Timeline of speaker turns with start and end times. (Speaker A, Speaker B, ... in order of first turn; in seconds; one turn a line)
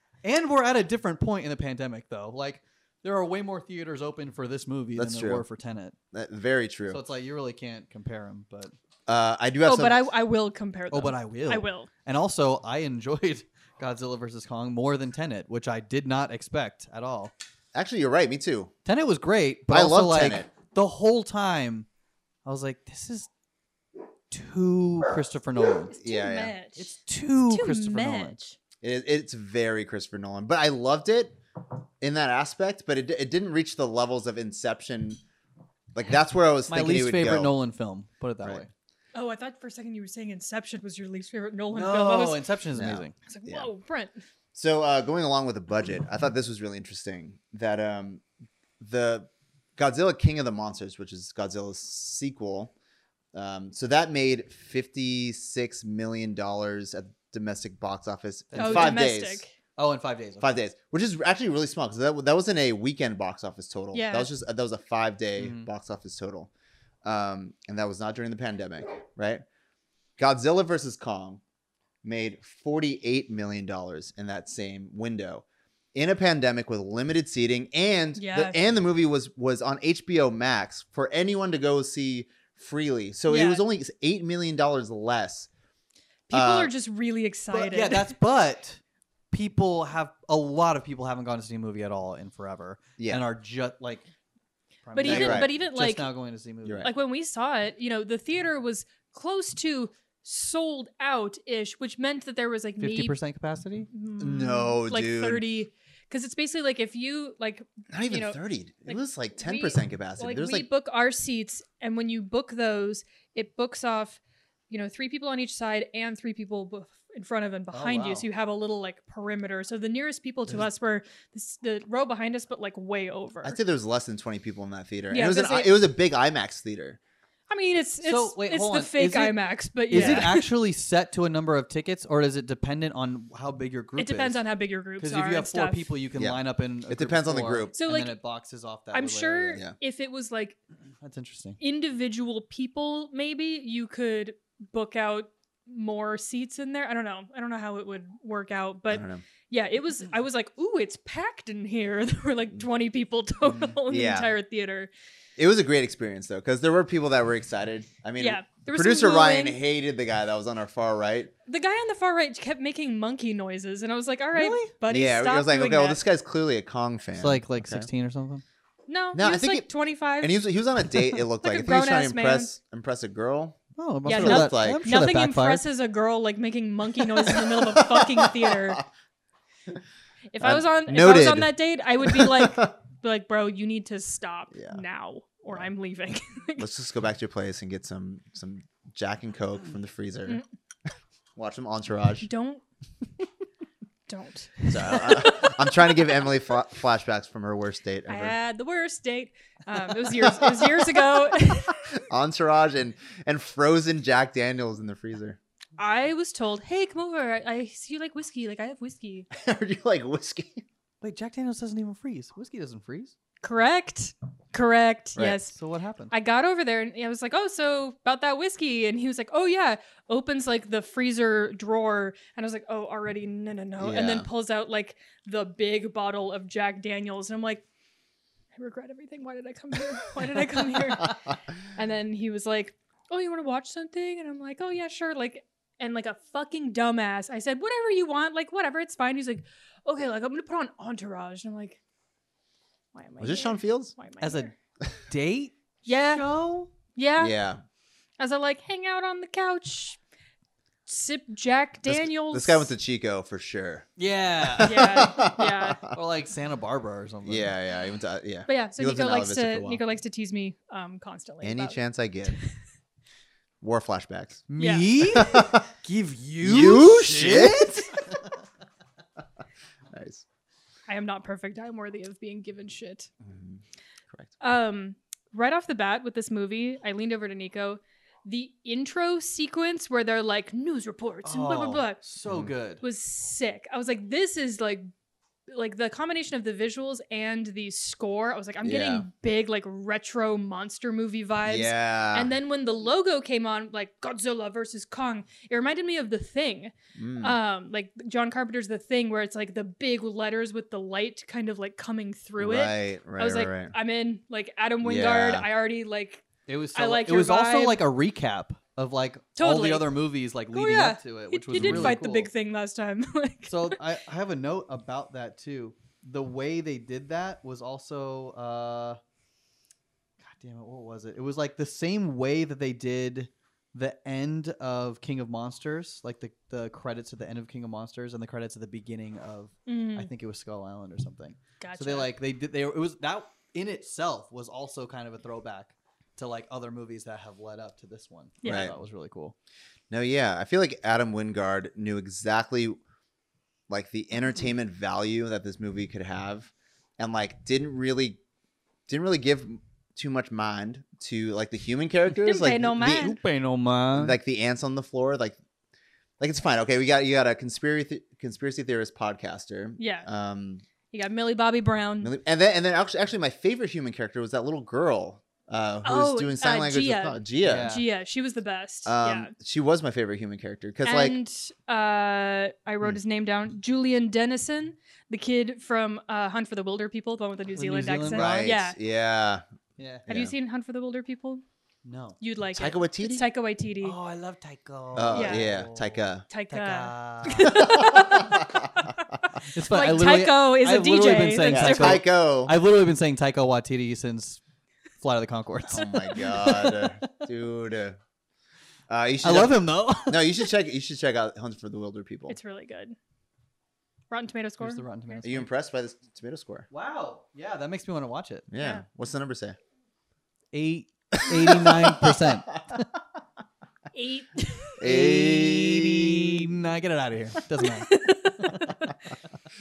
Speaker A: 0.2-6.0
Speaker B: 5.0-5.4
Speaker B: 6.1-7.0
Speaker A: 6.9-8.7
Speaker B: 9.1-10.0
Speaker C: 9.6-11.9
Speaker A: 10.9-17.3
Speaker B: 17.7-18.7
Speaker A: 18.9-21.9
Speaker B: 19.7-20.5
Speaker A: 22.4-23.3
Speaker A: 24.3-25.9
Speaker C: 25.9-28.6
Speaker B: 26.0-26.5
Speaker A: 26.8-28.4
Speaker B: 28.8-31.4
Speaker B: 32.0-35.2
Speaker B: 35.9-37.5
Speaker A: 36.7-38.7
Speaker C: 39.1-42.4
Speaker A: 41.7-43.1
Speaker B: 42.8-43.7
Speaker C: 43.2-44.2
Speaker B: 44.5-48.2
Speaker B: 48.8-52.7
Speaker B: 53.3-59.4
Speaker A: 58.5-59.0
Speaker C: 58.6-59.5
Speaker A: 59.8-60.5
Speaker B: 60.4-66.5
Speaker C: 63.9-64.3
Speaker A: 65.4-65.7
Speaker B: 67.0-69.4
Speaker B: 70.2-71.4
Speaker B: 72.0-75.4
Speaker B: 75.9-85.5
Speaker C: 78.2-78.6
Speaker C: 83.3-83.6
Speaker C: 86.3-88.1
Speaker B: 86.3-86.7
Speaker A: 87.5-88.8
Speaker A: 89.3-94.0
Speaker B: 93.0-93.2
Speaker A: 94.8-96.9
Speaker C: 94.9-96.1
Speaker B: 95.0-95.5
Speaker B: 96.6-96.9
Speaker C: 96.8-103.2
Speaker A: 102.8-103.9
Speaker C: 103.9-123.6
Speaker B: 104.2-105.4
Speaker B: 107.9-110.7
Speaker A: 117.7-118.3
Speaker B: 123.4-127.0
Speaker C: 125.1-125.8
Speaker C: 127.5-130.5
Speaker A: 128.0-129.4
Speaker A: 129.9-134.4
Speaker B: 129.9-130.3
Speaker C: 134.0-135.9
Speaker A: 135.0-139.6
Speaker B: 136.2-137.7
Speaker C: 137.8-138.2
Speaker C: 138.9-140.6
Speaker A: 141.0-141.6
Speaker C: 141.6-154.9
Speaker B: 148.9-149.2
Speaker B: 153.9-154.3
Speaker B: 155.4-161.3
Speaker C: 158.2-159.6
Speaker C: 161.4-166.0
Speaker A: 164.3-164.7
Speaker B: 164.9-167.9
Speaker A: 167.2-168.4
Speaker C: 168.9-170.4
Speaker B: 169.1-169.7
Speaker B: 170.2-174.9
Speaker C: 171.0-172.5
Speaker A: 173.8-175.6
Speaker C: 174.1-178.8
Speaker B: 177.2-178.8
Speaker C: 180.3-186.7
Speaker B: 180.4-182.7
Speaker B: 184.5-184.8
Speaker B: 186.6-190.4
Speaker B: 191.4-192.3
Speaker C: 192.2-192.6
Speaker C: 194.1-195.9
Speaker B: 194.7-198.3
Speaker C: 198.1-201.8
Speaker B: 200.1-205.4
Speaker C: 205.8-209.3
Speaker B: 209.3-210.6
Speaker A: 211.0-213.1
Speaker C: 213.4-215.6
Speaker A: 215.5-216.1
Speaker C: 216.1-227.6
Speaker B: 223.8-224.3
Speaker C: 228.5-241.8
Speaker C: 242.9-244.5
Speaker B: 243.2-243.9
Speaker A: 244.2-244.5
Speaker A: 245.1-246.7
Speaker C: 245.9-246.3
Speaker C: 246.9-247.3
Speaker B: 247.2-247.6
Speaker C: 248.2-250.0
Speaker C: 250.9-252.7
Speaker B: 251.8-253.9
Speaker A: 254.0-255.1
Speaker B: 254.4-255.9
Speaker C: 254.6-255.8
Speaker A: 255.9-257.5
Speaker B: 257.2-259.8
Speaker C: 258.5-261.8
Speaker B: 261.4-262.4
Speaker B: 263.6-264.4
Speaker A: 264.5-268.2
Speaker C: 264.6-265.3
Speaker B: 265.1-265.6
Speaker B: 266.4-267.9
Speaker B: 269.9-270.2
Speaker C: 270.9-273.1
Speaker B: 273.2-274.3
Speaker C: 274.4-282.0
Speaker A: 281.2-282.8
Speaker C: 282.8-284.9
Speaker C: 285.5-307.8
Speaker B: 288.6-289.1
Speaker B: 291.4-292.3
Speaker B: 296.9-297.4
Speaker B: 302.4-303.7
Speaker B: 304.8-305.5
Speaker A: 306.5-312.3
Speaker C: 309.4-309.9
Speaker C: 310.5-313.8
Speaker B: 311.6-312.0
Speaker A: 313.5-319.0
Speaker A: 320.2-339.4
Speaker C: 329.7-330.1
Speaker C: 331.6-332.1
Speaker C: 338.4-338.7
Speaker B: 338.4-338.7
Speaker B: 339.9-342.8
Speaker B: 343.7-348.2
Speaker B: 348.9-353.2
Speaker C: 352.2-353.2
Speaker A: 353.0-354.2
Speaker B: 353.9-355.4
Speaker B: 356.2-360.6
Speaker C: 359.8-360.1
Speaker C: 360.9-362.1
Speaker B: 362.0-367.7
Speaker C: 365.8-369.3
Speaker A: 367.4-367.9
Speaker B: 368.9-371.1
Speaker C: 370.9-378.8
Speaker A: 377.6-378.5
Speaker B: 378.1-379.4
Speaker A: 379.8-380.1
Speaker B: 380.1-380.3
Speaker C: 380.1-381.4
Speaker A: 381.9-382.2
Speaker C: 382.2-384.0
Speaker B: 382.5-383.2
Speaker A: 383.8-388.0
Speaker B: 384.9-386.2
Speaker C: 385.1-385.5
Speaker C: 386.3-392.0
Speaker B: 387.5-388.7
Speaker A: 389.5-394.4
Speaker B: 391.4-392.6
Speaker A: 395.0-397.2
Speaker B: 395.7-398.0
Speaker B: 398.9-402.4
Speaker A: 399.2-400.3
Speaker C: 402.3-402.9
Speaker C: 404.1-405.1
Speaker A: 404.6-405.5
Speaker B: 405.2-406.7
Speaker A: 406.7-408.5
Speaker B: 408.5-409.6
Speaker A: 410.5-412.9
Speaker B: 411.1-412.2
Speaker C: 413.9-414.8
Speaker B: 414.8-416.5
Speaker A: 414.8-418.6
Speaker C: 417.6-419.0